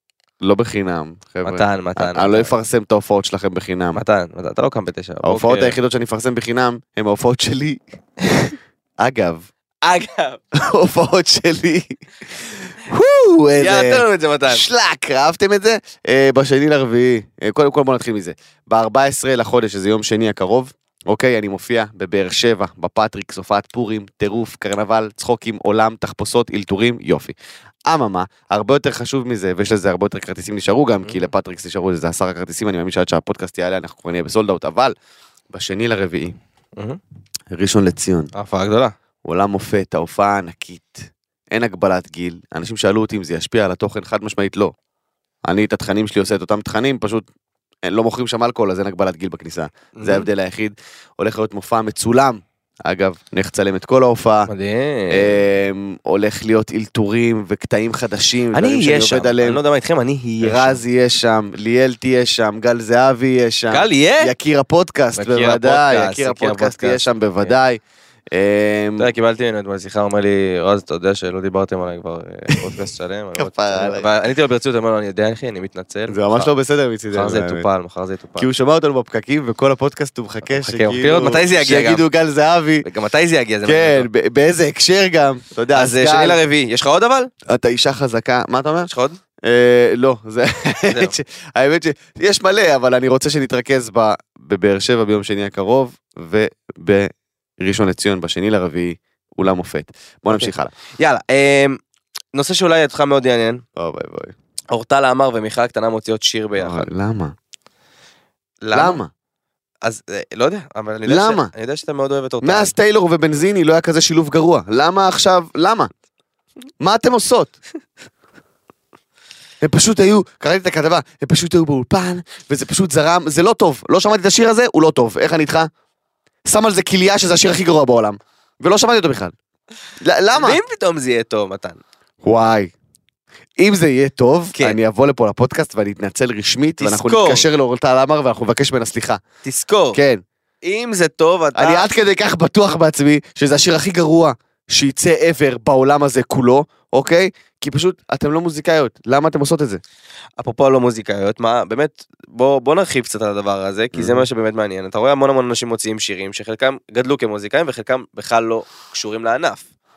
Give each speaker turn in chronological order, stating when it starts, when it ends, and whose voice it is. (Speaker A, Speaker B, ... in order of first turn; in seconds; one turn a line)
Speaker A: 0.4-4.0
Speaker B: 1.4-2.5
Speaker B: 3.9-5.8
Speaker A: 5.2-7.8
Speaker A: 9.0-9.5
Speaker B: 9.8-10.4
Speaker A: 10.6-12.0
Speaker A: 12.9-27.3
Speaker B: 13.6-14.7
Speaker A: 27.9-35.0
Speaker A: 35.5-36.4
Speaker A: 37.5-38.3
Speaker B: 38.3-39.0
Speaker A: 39.2-44.7
Speaker A: 45.5-47.3
Speaker A: 47.9-54.5
Speaker B: 50.0-50.3
Speaker B: 54.5-55.4
Speaker A: 55.1-59.6
Speaker B: 58.5-60.8
Speaker A: 60.4-67.8
Speaker B: 63.7-64.3
Speaker B: 65.2-67.5
Speaker A: 68.3-69.1
Speaker B: 69.0-76.5
Speaker A: 73.3-74.1
Speaker A: 76.1-77.7
Speaker B: 77.1-78.5
Speaker A: 78.4-82.8
Speaker B: 80.5-82.0
Speaker B: 82.8-84.1
Speaker A: 83.7-86.4
Speaker B: 85.7-87.3
Speaker A: 87.5-88.9
Speaker B: 88.9-89.2
Speaker A: 89.4-100.7
Speaker B: 90.9-91.1
Speaker B: 100.3-101.8
Speaker B: 102.3-103.6
Speaker A: 103.8-104.3
Speaker B: 104.7-106.9
Speaker A: 106.6-107.3
Speaker B: 108.6-109.0
Speaker A: 108.7-109.1
Speaker B: 109.8-112.7
Speaker A: 111.0-111.5
Speaker A: 112.4-115.9
Speaker A: 116.8-117.5
Speaker A: 119.6-125.7
Speaker A: 126.5-129.3
Speaker A: 130.0-130.6
Speaker B: 130.3-131.8
Speaker A: 132.2-132.7
Speaker A: 133.6-139.2
Speaker B: 136.8-137.5
Speaker B: 139.4-140.0
Speaker A: 139.9-140.2
Speaker B: 140.6-141.9
Speaker A: 141.6-149.8
Speaker B: 150.4-159.7
Speaker A: 153.9-154.3